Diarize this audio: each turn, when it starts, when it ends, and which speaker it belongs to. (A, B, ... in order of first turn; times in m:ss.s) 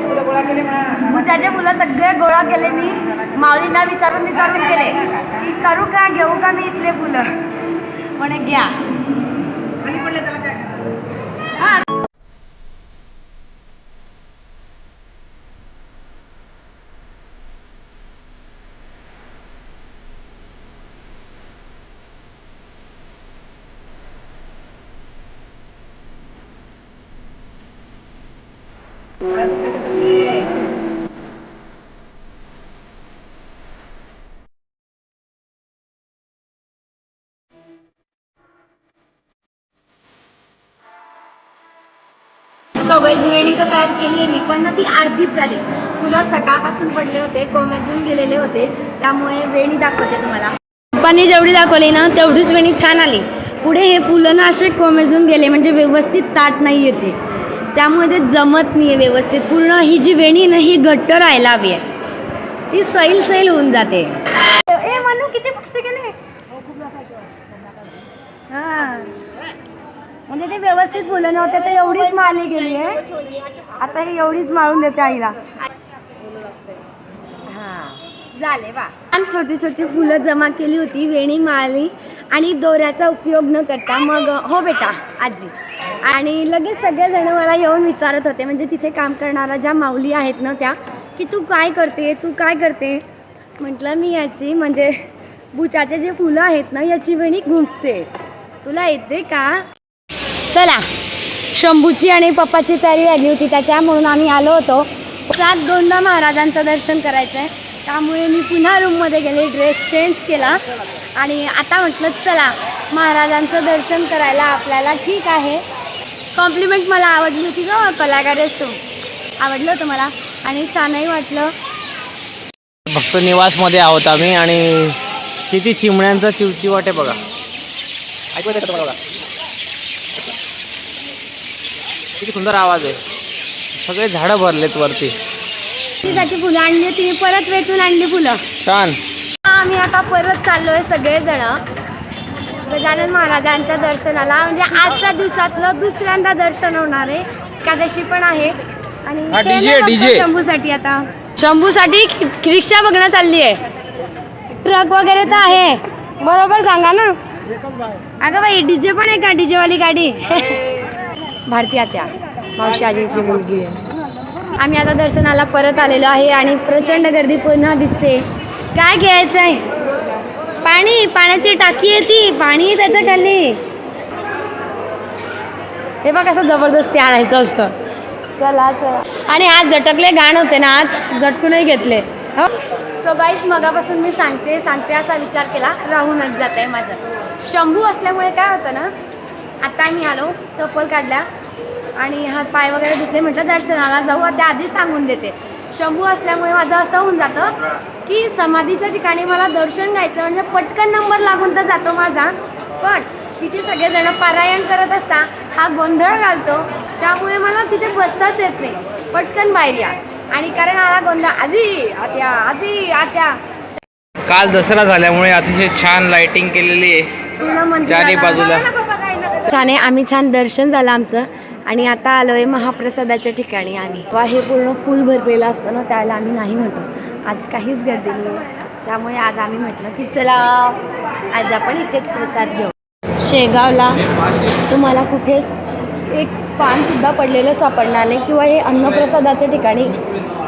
0:00.7-0:07.3 A
0:08.2-0:08.8 A
0:09.9-0:10.3 A
0:42.8-0:57.2 A
0:57.7-1:01.8 A
1:02.7-1:06.2 A
1:08.5-1:09.2 A
1:10.3-1:15.5 A
1:17.5-1:33.0 A
1:33.6-1:35.0 A
1:35.5-1:38.1 A
1:38.6-1:39.7 A
1:40.5-1:40.9 A
1:41.5-1:50.6 A
1:51.2-1:55.6 A
1:56.3-1:58.8 A
1:59.4-2:01.5 A
2:02.9-2:05.0 B
2:05.5-2:07.2 B
2:08.3-2:09.0 B
2:12.2-2:13.0 B
2:13.8-2:15.2 B
2:16.0-2:18.4 A
2:18.6-2:19.0 B
2:19.4-2:21.6 A
2:22.6-2:33.6 A
2:29.3-2:30.3 B
2:34.5-2:37.2 A
2:38.2-2:40.8 A
2:41.5-2:43.9 A
2:44.6-2:49.6 A
2:50.6-2:53.6 A
2:56.0-2:57.8 A
2:58.4-3:08.9 A
3:09.6-3:11.3 A
3:12.0-3:17.5 A
3:18.0-3:33.4 A
3:34.3-3:37.1 B
3:37.4-3:55.5 A
3:37.8-3:38.7 B
3:56.0-4:00.0 A